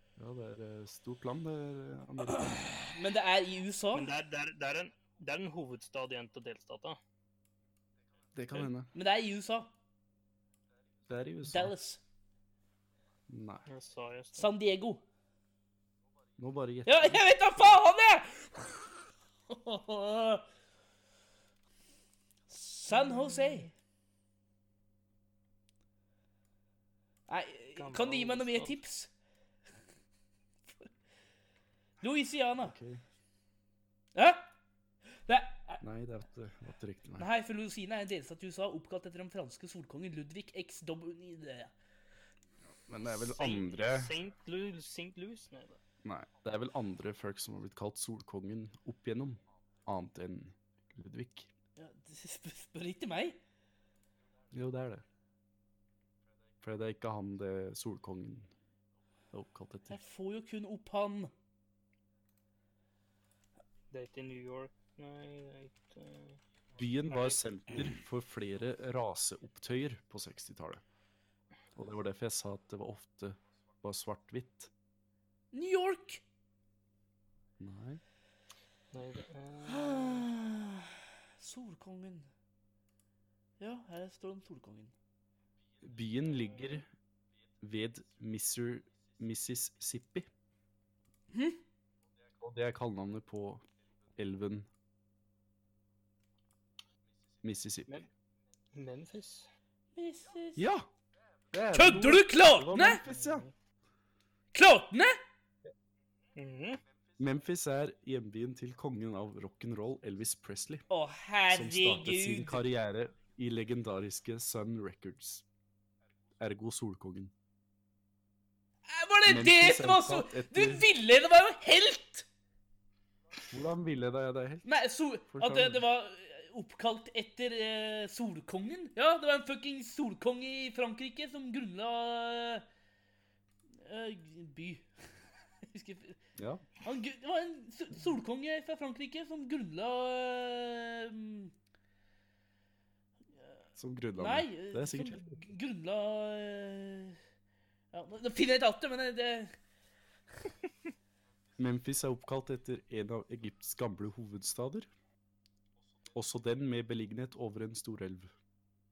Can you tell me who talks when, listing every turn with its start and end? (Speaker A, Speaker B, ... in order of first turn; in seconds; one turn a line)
Speaker A: 0.2-2.7
Speaker B: 2.5-4.1
Speaker C: 3.9-7.0
Speaker A: 8.3-8.9
Speaker B: 8.9-9.7
Speaker A: 11.1-11.7
Speaker B: 11.5-12.0
Speaker A: 13.3-13.7
Speaker C: 13.7-14.5
Speaker B: 14.4-15.0
Speaker A: 16.4-17.7
Speaker B: 16.9-20.4
Speaker B: 22.5-23.7
Speaker C: 22.9-23.5
Speaker B: 27.3-29.1
Speaker C: 27.8-28.8
Speaker B: 32.0-32.8
Speaker A: 32.6-33.0
Speaker B: 34.1-34.5
Speaker B: 35.3-35.8
Speaker A: 35.8-37.3
Speaker B: 37.2-41.7
Speaker A: 42.7-44.2
Speaker C: 43.2-45.8
Speaker A: 46.0-51.5
Speaker B: 51.8-53.4
Speaker A: 54.5-55.0
Speaker A: 56.6-58.5
Speaker A: 59.3-60.0
Speaker B: 59.9-61.3
Speaker C: 63.9-66.4
Speaker A: 66.8-70.8
Speaker C: 67.1-67.4
Speaker A: 71.8-74.7
Speaker B: 75.5-76.2
Speaker A: 77.6-78.0
Speaker C: 78.9-80.2
Speaker B: 79.7-82.3
Speaker B: 83.6-84.9
Speaker A: 85.8-86.9
Speaker A: 87.6-90.3
Speaker B: 91.3-91.6
Speaker A: 92.4-93.7
Speaker A: 94.2-94.7
Speaker A: 97.4-98.1
Speaker C: 98.7-99.5
Speaker B: 100.0-100.7
Speaker A: 100.6-100.9
Speaker A: 101.5-103.5
Speaker B: 101.8-103.0
Speaker C: 103.1-103.5
Speaker B: 104.5-105.2
Speaker C: 106.4-106.8
Speaker A: 107.2-110.9
Speaker B: 110.9-112.6
Speaker A: 111.5-115.4
Speaker A: 116.4-117.3
Speaker B: 118.9-122.3
Speaker A: 119.3-120.9
Speaker A: 123.5-124.7
Speaker B: 124.7-132.7
Speaker A: 125.3-125.8
Speaker B: 133.8-134.9
Speaker B: 135.7-136.2
Speaker A: 136.4-136.7
Speaker B: 136.8-141.5
Speaker A: 143.8-145.4
Speaker B: 144.2-147.2
Speaker B: 147.9-149.6
Speaker A: 151.6-154.9
Speaker A: 156.1-158.3